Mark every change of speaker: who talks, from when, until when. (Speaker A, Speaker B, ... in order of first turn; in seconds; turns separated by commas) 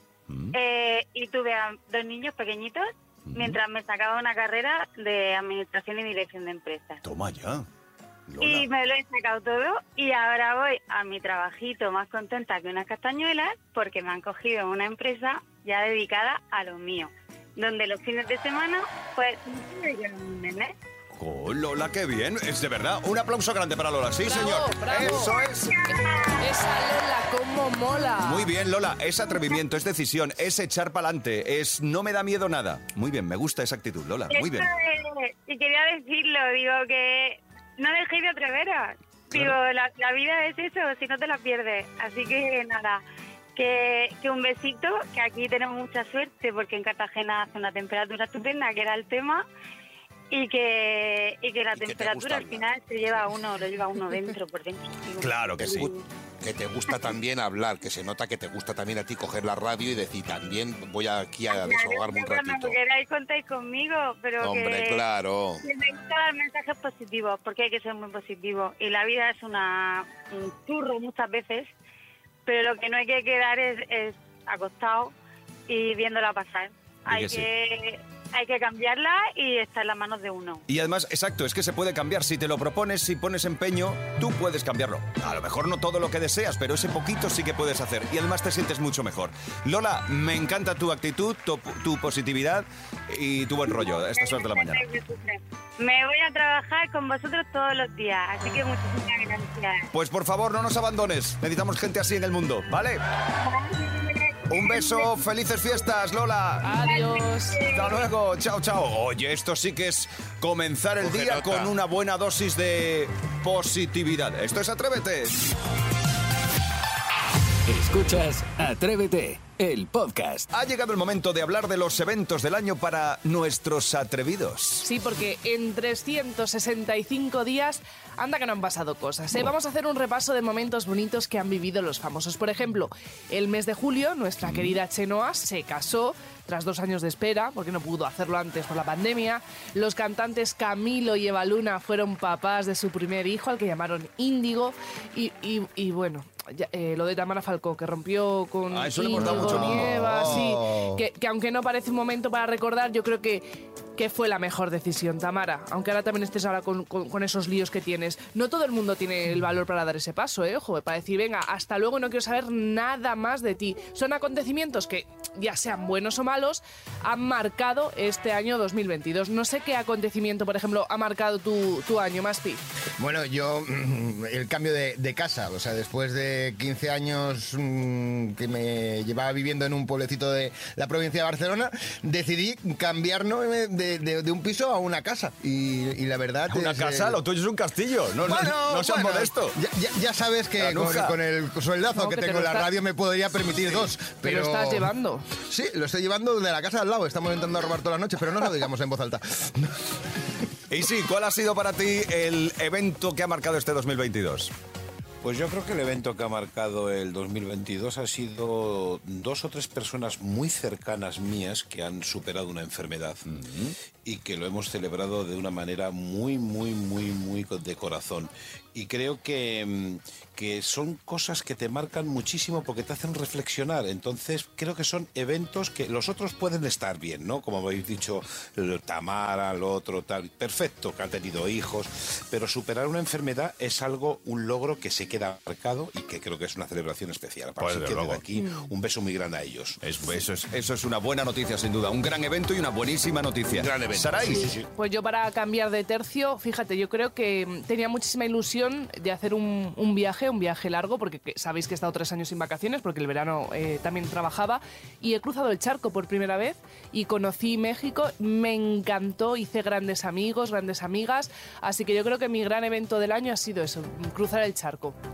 Speaker A: 0.3-0.6, Speaker B: 0.5-7.0, Speaker A: 3.2-3.6, Speaker A: 7.0-7.7, Speaker A: 8.3-8.7, Speaker B: 8.4-20.7, Speaker A: 21.2-25.8, Speaker C: 24.2-25.3, Speaker B: 25.1-26.1, Speaker C: 25.9-28.5, Speaker A: 28.2-34.7, Speaker B: 34.3-43.0, Speaker A: 39.3-39.6, Speaker B: 43.5-49.5, Speaker B: 50.3-56.0, Speaker D: 51.7-52.7, Speaker A: 55.2-55.9, Speaker D: 55.6-55.9, Speaker D: 56.4-62.8, Speaker B: 61.5-65.0, Speaker D: 64.4-65.6, Speaker B: 65.6-71.7, Speaker B: 72.5-75.1, Speaker B: 75.7-80.6, Speaker A: 77.1-77.5, Speaker A: 80.7-94.9, Speaker B: 93.7-99.9, Speaker A: 99.9-103.0, Speaker B: 103.4-105.1, Speaker A: 104.5-106.7, Speaker C: 106.6-107.6, Speaker B: 106.7-108.0, Speaker A: 107.7-115.4, Speaker D: 111.0-111.7, Speaker E: 117.7-120.5, Speaker A: 120.5-124.8, Speaker C: 124.8-172.6, Speaker A: 134.4-134.8, Speaker A: 148.7-150.4, Speaker F: 149.2-151.0, Speaker F: 173.0-187.2, Speaker A: 186.5-189.6, Speaker F: 188.2-194.9, Speaker A: 190.6-191.2, Speaker C: 191.9-192.7, Speaker C: 194.2-195.2, Speaker F: 195.4-199.7, Speaker A: 200.7-204.5, Speaker D: 205.2-213.4, Speaker A: 213.3-213.7, Speaker D: 214.0-239.8, Speaker A: 237.6-238.2, Speaker A: 239.8-244.5, Speaker D: 243.5-244.7, Speaker C: 244.7-264.9